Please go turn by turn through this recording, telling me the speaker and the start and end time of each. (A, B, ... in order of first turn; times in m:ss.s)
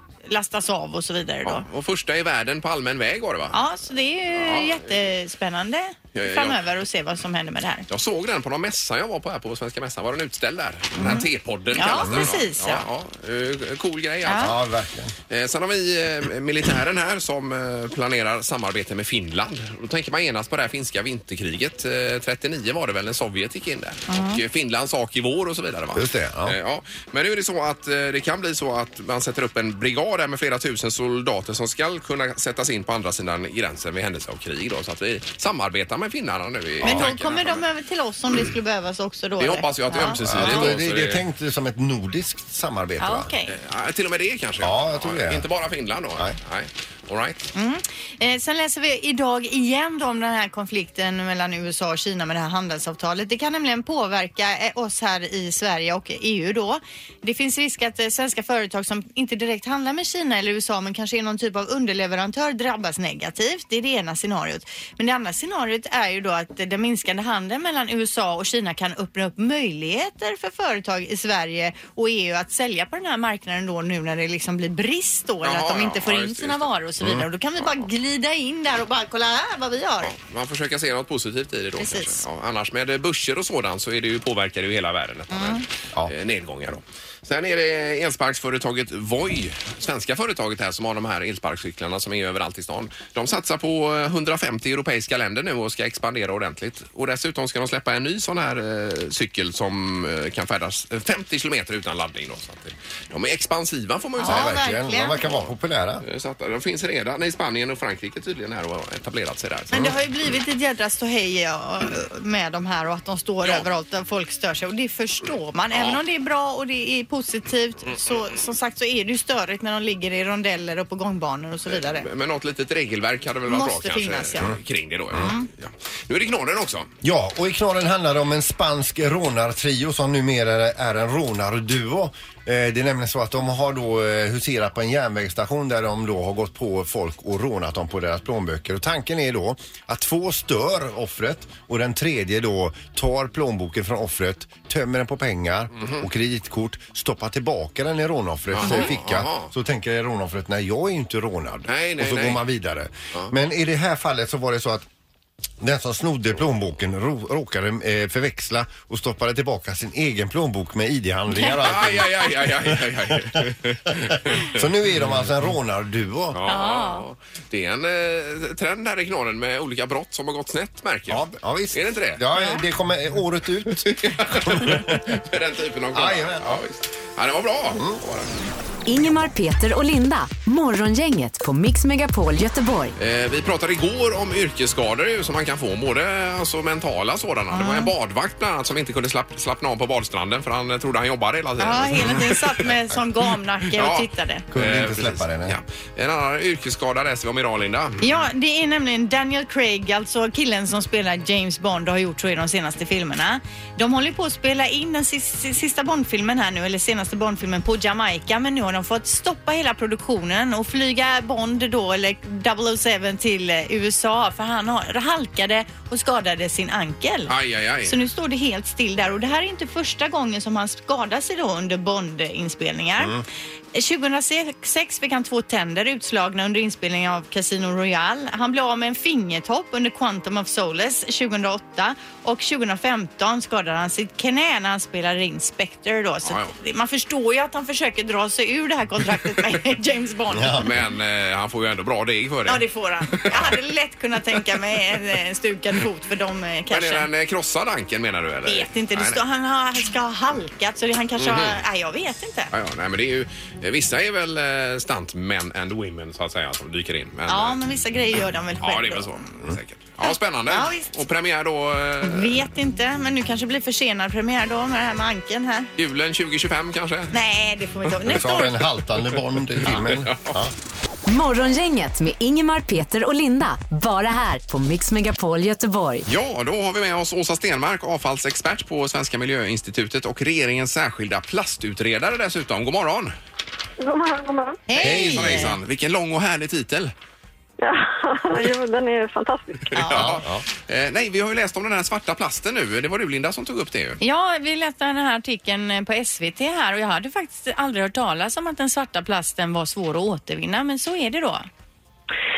0:00.3-0:01.6 A
0:01.4-0:03.6 B
0:03.5-0:07.8 A
0:04.4-0:04.8 B
0:06.1-0:06.6 B
0:07.9-0:14.6 B
0:11.0-0:12.8 A
0:14.2-0:14.5 A
0:14.4-0:15.1 C
0:15.3-0:37.6 B
0:24.1-0:24.4 A
0:25.9-0:26.6 C
0:36.8-0:37.1 C
0:36.8-0:40.7 A
0:39.4-0:41.2 B
0:40.2-0:43.3 C
0:43.0-0:43.5 A
0:43.5-0:47.5 B
0:44.6-0:45.4 C
0:47.5-1:20.1 A
1:15.4-1:16.6 B
1:17.6-1:17.9 B
1:20.0-1:44.6 B
1:21.8-1:22.2 A
1:25.3-1:25.6 A
1:44.2-1:45.2 A
1:44.2-1:46.0 C
1:46.0-1:49.9 B
1:49.7-2:02.1 A
1:55.7-1:56.0 B
2:01.6-2:06.9 B
2:03.4-2:04.5 A
2:05.1-2:05.5 A
2:07.0-2:34.9 C
2:25.8-2:26.0 B
2:28.5-2:29.5 B
2:31.7-2:32.4 B
2:35.6-2:43.3 C
2:41.6-2:45.2 B
2:44.0-2:46.4 C
2:46.3-2:52.2 B
2:46.5-2:47.0 A
2:51.1-2:55.2 C
2:52.3-2:52.6 A
2:53.7-2:58.3 B
2:55.9-2:56.6 C
2:57.7-2:58.0 C
2:58.8-3:02.9 D
3:03.0-3:12.7 B
3:07.5-3:07.9 A
3:11.6-3:14.4 A
3:13.7-3:18.0 B
3:14.5-3:15.6 C
3:18.0-3:43.2 A
3:37.3-3:37.9 B
3:43.7-4:00.7 A
3:56.2-3:56.5 B
4:00.3-4:00.7 C
4:00.6-4:03.5 B
4:02.5-4:07.1 A
4:06.7-4:09.2 B
4:08.4-4:12.5 A
4:11.2-4:11.6 B
4:12.5-4:17.6 B
4:17.3-4:19.2 A
4:18.6-4:22.4 B
4:20.0-4:20.9 A
4:22.0-4:25.7 A
4:25.8-4:27.1 B
4:27.1-4:28.6 A
4:28.0-4:30.5 C
4:29.6-4:30.4 B
4:31.1-4:36.1 D
4:36.0-4:43.1 B
4:43.8-4:44.6 E
4:44.7-4:45.5 A
4:44.8-4:46.9 B
4:44.8-4:45.5 C
4:47.6-4:49.7 E
4:49.7-4:50.1 A
4:49.8-4:54.0 B
4:49.9-4:50.4 C
4:54.0-5:01.5 A